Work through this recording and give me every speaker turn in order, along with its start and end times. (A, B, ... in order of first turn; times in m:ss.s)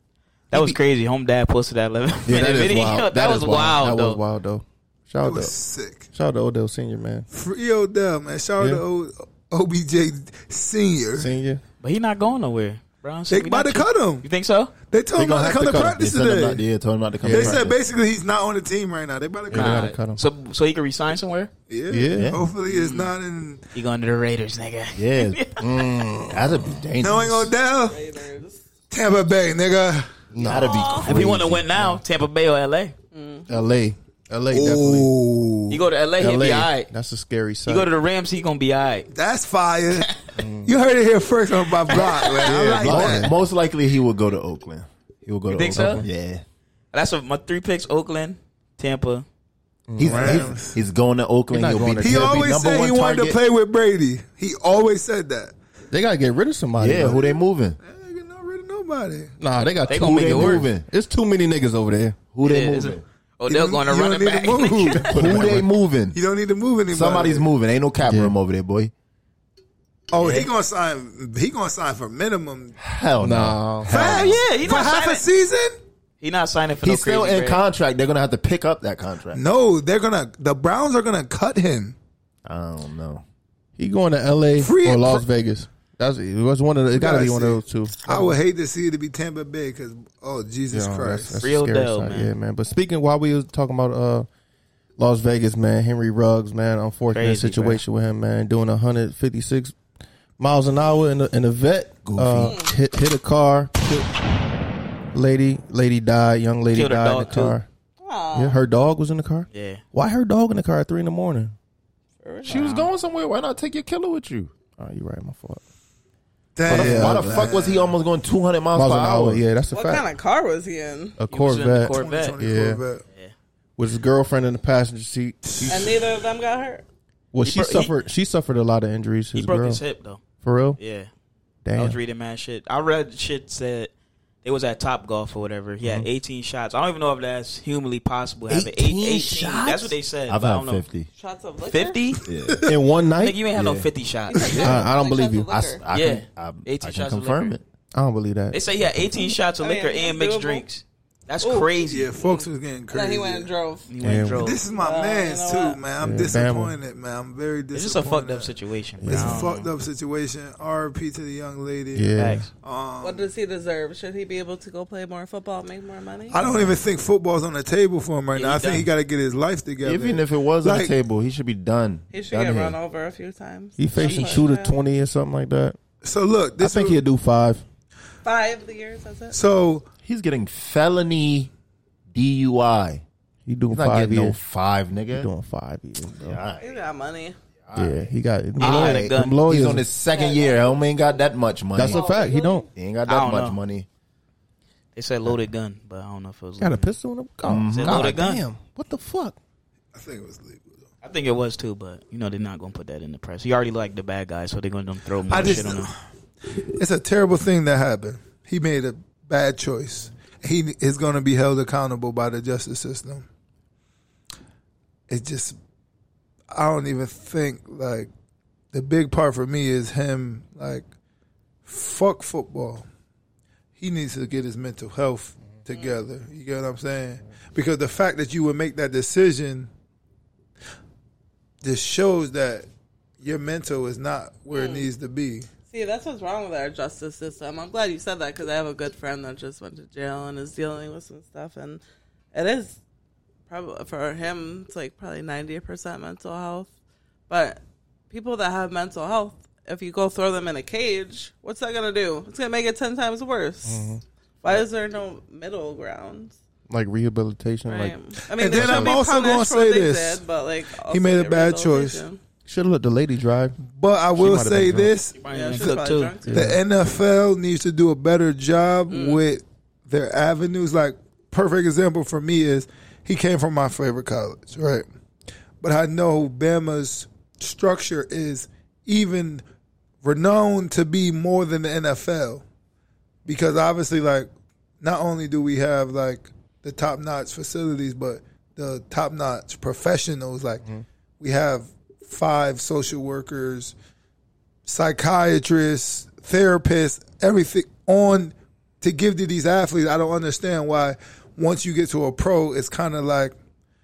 0:00.5-0:04.2 A
0:00.5-0:00.8 B
0:02.3-0:05.6 C
0:05.2-0:06.1 D
0:06.1-0:07.3 C
0:07.3-0:11.3 D
0:08.6-0:08.8 C
0:11.2-0:11.6 C
0:11.8-0:14.7 A
0:13.3-0:14.3 D
0:14.9-0:16.6 D
0:15.2-0:16.0 C
0:15.2-0:17.8 B
0:17.2-0:17.6 C
0:17.3-0:19.9 D
0:19.5-0:20.2 C
0:19.5-0:21.5 A
0:21.7-0:23.6 D
0:21.9-0:22.4 C
0:22.2-0:22.4 B
0:22.7-0:23.1 A
0:23.7-0:25.6 A
0:25.0-0:25.4 B
0:25.6-0:26.8 C
0:26.3-0:27.5 B
0:27.0-0:28.0 D
0:27.8-0:28.6 E
0:28.9-0:30.2 D
0:30.3-0:32.0 C
0:30.4-0:31.7 B
0:30.5-0:31.1 E
0:31.0-0:32.9 A
0:33.1-0:33.5 E
0:33.5-0:35.1 C
0:34.5-0:35.8 D
0:35.7-0:36.9 A
0:36.2-0:37.9 C
0:37.7-0:39.1 A
0:39.1-0:40.1 D
0:40.4-0:40.7 C
0:40.6-0:43.3 D
0:41.9-0:42.5 A
0:42.4-0:43.4 C
0:42.4-0:46.4 B
0:45.5-0:46.0 A
0:45.8-0:46.0 C
0:46.9-0:49.3 A
0:49.9-0:50.6 C
0:50.0-0:53.4 B
0:50.0-0:50.8 D
0:51.5-0:52.5 C
0:52.0-0:55.5 D
0:55.9-0:57.2 C
0:56.8-0:57.8 B
0:57.0-0:59.3 D
0:59.4-1:02.2 C
0:59.9-1:00.7 A
0:59.9-1:00.8 B
1:02.3-1:03.0 B
1:02.4-1:05.4 A
1:03.5-1:05.2 D
1:05.0-1:06.2 B
1:05.1-1:05.7 C
1:06.1-1:07.5 D
1:06.9-1:08.9 B
1:08.0-1:08.4 C
1:10.1-1:12.8 D
1:10.2-1:10.5 A
1:12.8-1:14.5 B
1:13.2-1:14.0 C
1:13.8-1:15.8 D
1:14.0-1:15.3 A
1:16.2-1:17.6 A
1:16.8-1:19.4 B
1:19.3-1:22.0 D
1:22.4-1:23.2 B
1:23.8-1:28.4 C
1:24.6-1:25.2 D
1:26.9-1:31.4 D
1:30.7-1:34.3 C
1:31.4-1:32.3 A
1:35.0-1:39.8 C
1:37.1-1:37.8 A
1:40.4-1:44.1 C
1:42.0-1:42.6 B
1:42.4-1:42.7 E
1:45.1-1:47.7 C
1:46.7-1:47.6 A
1:48.0-1:48.6 E
1:48.4-1:51.6 C
1:49.5-1:49.8 A
1:52.2-1:52.8 E
1:52.4-1:54.5 B
1:52.5-1:52.9 A
1:54.8-1:55.6 C
1:56.6-1:57.9 D
1:56.7-1:57.6 C
1:56.7-1:59.4 B
1:58.7-2:00.1 C
1:59.7-2:01.2 E
2:01.2-2:02.8 C
2:01.3-2:02.4 A
2:01.9-2:03.0 D
2:03.8-2:06.0 C
2:05.7-2:06.8 E
2:07.3-2:09.8 C
2:07.4-2:07.9 A
2:09.4-2:10.2 A
2:10.4-2:10.8 C
2:10.8-2:11.1 A
2:11.6-2:12.0 C
2:11.7-2:13.9 A
2:14.4-2:20.9 A
2:18.5-2:21.1 B
2:21.2-2:22.0 E
2:21.7-2:22.2 A
2:22.3-2:22.7 B
2:22.6-2:23.8 C
2:23.2-2:24.7 A
2:23.6-2:23.8 B
2:24.3-2:25.8 E
2:24.5-2:24.8 B
2:24.5-2:25.6 C
2:25.5-2:27.6 B
2:25.9-2:27.6 A
2:27.9-2:28.6 C
2:28.5-2:32.1 A
2:29.6-2:30.6 E
2:31.4-2:33.9 E
2:31.8-2:33.5 D
2:33.9-2:34.6 A
2:34.0-2:34.5 C
2:34.4-2:38.5 D
2:34.7-2:35.8 E
2:36.0-2:36.8 C
2:37.7-2:39.7 A
2:39.0-2:39.5 C
2:39.0-2:43.3 D
2:41.9-2:42.4 C
2:42.1-2:42.5 A
2:43.0-2:46.4 E
2:46.3-2:50.9 D
2:46.4-2:46.8 C
2:48.3-2:48.9 A
2:49.8-2:52.8 B
2:52.1-2:54.8 E
2:53.8-2:55.8 C
2:54.0-2:54.4 A
2:56.0-2:57.0 D
2:56.6-2:57.6 C
2:58.2-2:59.4 E
2:59.3-2:59.9 D
3:00.0-3:01.5 B
3:02.1-3:03.0 B
3:03.4-3:04.4 C
3:03.7-3:05.3 B
3:05.1-3:06.4 C
3:06.2-3:06.7 B
3:06.6-3:07.4 E
3:07.6-3:12.1 B
3:07.7-3:09.9 C
3:08.6-3:09.4 A
3:10.1-3:10.8 E
3:11.8-3:12.7 C
3:11.8-3:12.7 E
3:12.8-3:13.9 B
3:13.1-3:13.6 A
3:15.0-3:16.9 A
3:16.6-3:19.4 C
3:17.4-3:18.1 B
3:17.6-3:18.4 A
3:19.9-3:20.9 D
3:21.0-3:25.9 A
3:25.3-3:26.0 D
3:26.6-3:33.3 D
3:35.1-3:35.6 D
3:36.5-3:38.1 D
3:38.7-3:40.9 D
3:41.6-3:42.9 D
3:43.8-3:49.7 D
3:45.7-3:46.0 E
3:51.6-3:52.7 D
3:53.2-3:55.5 D
3:54.5-3:54.9 E
3:55.7-4:01.8 E
4:02.3-4:02.8 E
4:03.5-4:06.7 E
4:07.3-4:13.9 E
4:13.7-4:14.0 C
4:14.4-4:16.4 E
4:16.7-4:18.0 C
4:17.7-4:22.2 E
4:18.4-4:20.2 D
4:18.6-4:19.0 C
4:20.9-4:22.0 D
4:22.4-4:23.6 C
4:23.6-4:25.2 D
4:24.1-4:24.9 C
4:25.2-4:26.2 A
4:25.3-4:26.4 E
4:26.3-4:26.6 C
4:26.3-4:34.9 D
4:28.9-4:29.2 E
4:35.6-4:39.4 D
4:40.0-4:42.4 D
4:43.2-4:44.3 D
4:44.8-4:50.6 D
4:51.2-4:53.7 D
4:54.6-5:03.4 D